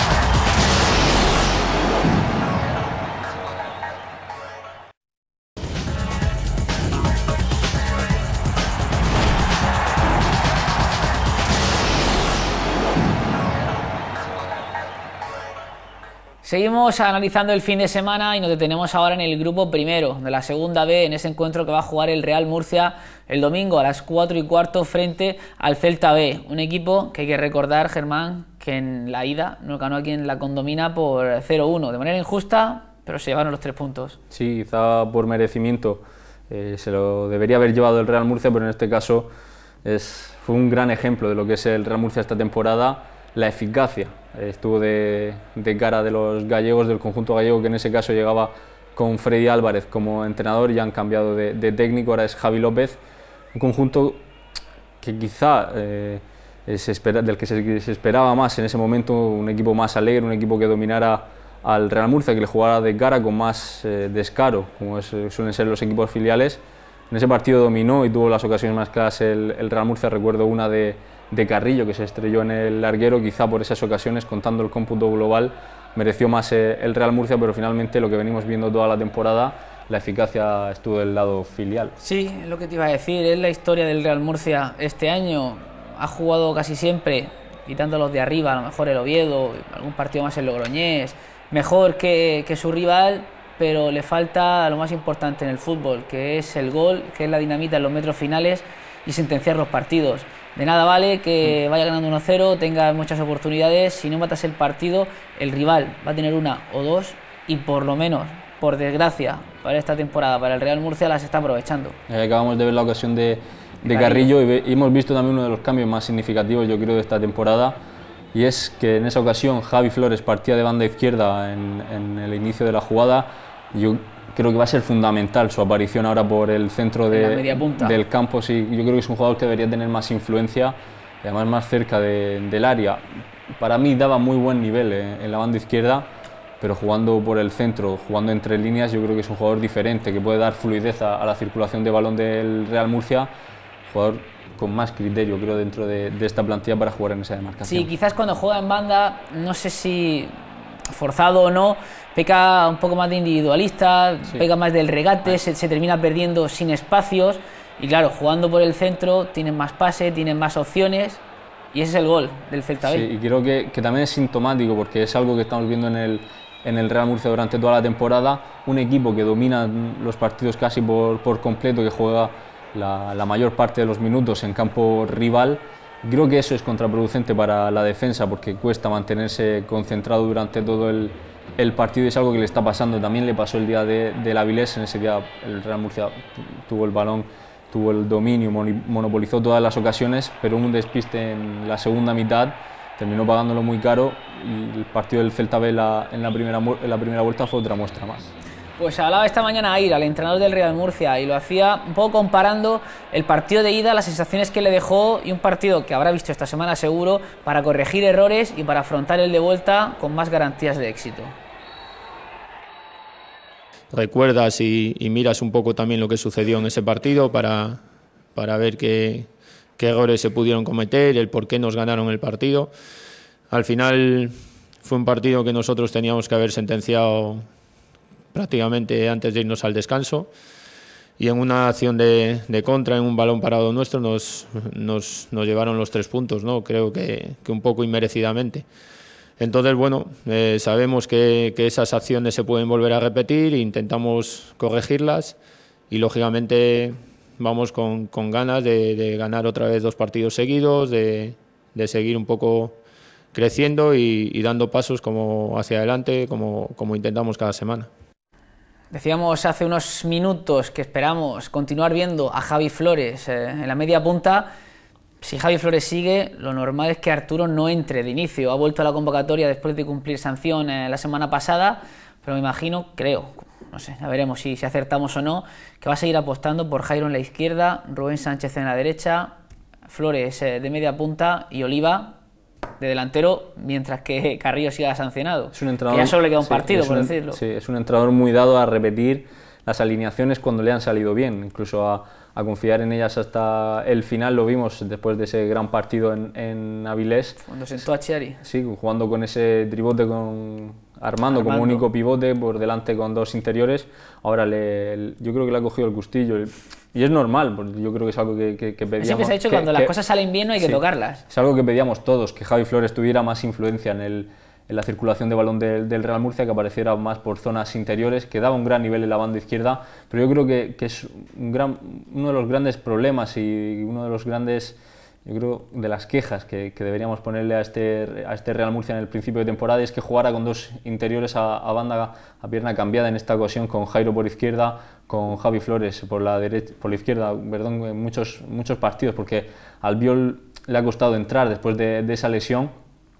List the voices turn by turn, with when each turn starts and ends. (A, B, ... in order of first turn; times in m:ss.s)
0:16.4-0:34.2 A
0:34.3-0:39.3 B
0:39.8-0:53.0 B
0:53.5-0:54.2 B
0:55.0-1:22.0 B
1:22.0-1:52.0 A
1:52.1-1:57.8 B
1:53.8-1:54.3 A
1:58.3-2:13.0 B
2:07.1-2:08.0 A
2:13.6-2:16.1 B
2:16.6-2:23.3 B
2:23.9-2:27.9 B
2:27.6-2:30.4 A
2:30.9-2:41.2 A
2:41.7-2:43.1 A
2:42.8-3:18.3 B
3:18.8-3:31.4 A
3:33.9-3:37.8 C
3:38.3-3:42.7 C
3:43.5-3:47.5 C
3:48.3-3:50.3 C
3:51.2-3:58.7 C
3:59.4-4:05.4 C
4:05.9-4:12.8 C
4:13.3-4:17.9 C
4:18.9-4:24.5 A
4:25.2-4:39.3 A
4:39.9-4:42.2 A
4:42.8-4:47.4 A
4:45.5-4:57.5 B
4:57.5-4:58.4 A
4:58.4-5:09.9 B
5:01.3-5:01.9 A
5:09.0-5:11.2 A
5:10.6-5:42.7 B